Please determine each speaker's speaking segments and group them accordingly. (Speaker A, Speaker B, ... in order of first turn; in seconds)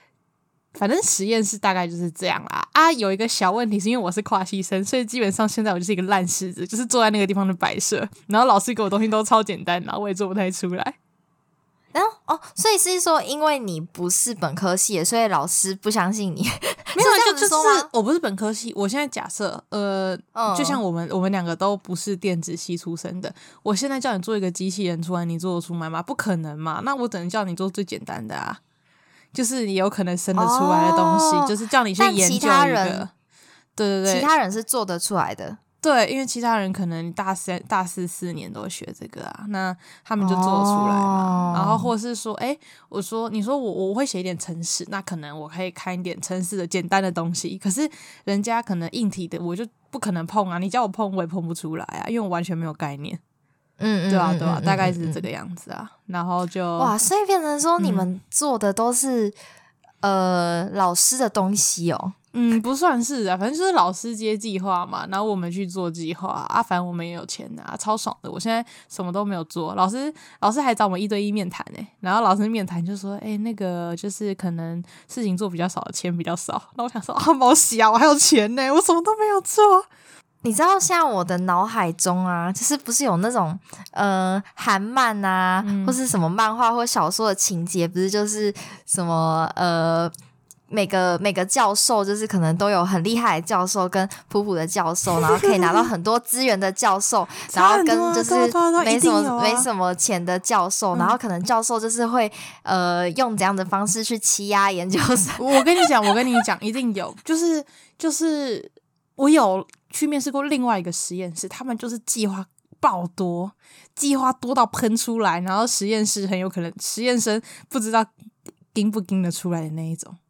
Speaker A: 0.8-10.9, 16.9-28.6, 29.3-33.1, 33.8-34.3, 35.8-53.2, 54.1-56.9, 57.8-58.1, 62.3-79.9, 85.6-86.0, 95.4-95.7, 97.5-99.7, 105.4-118.1, 118.7-120.2
Speaker B: 11.9-17.9, 20.3-20.8, 30.3-33.1, 34.0-35.6, 40.2-41.9, 53.8-55.2, 56.8-59.4, 60.0-62.1, 80.4-90.1, 90.7-105.9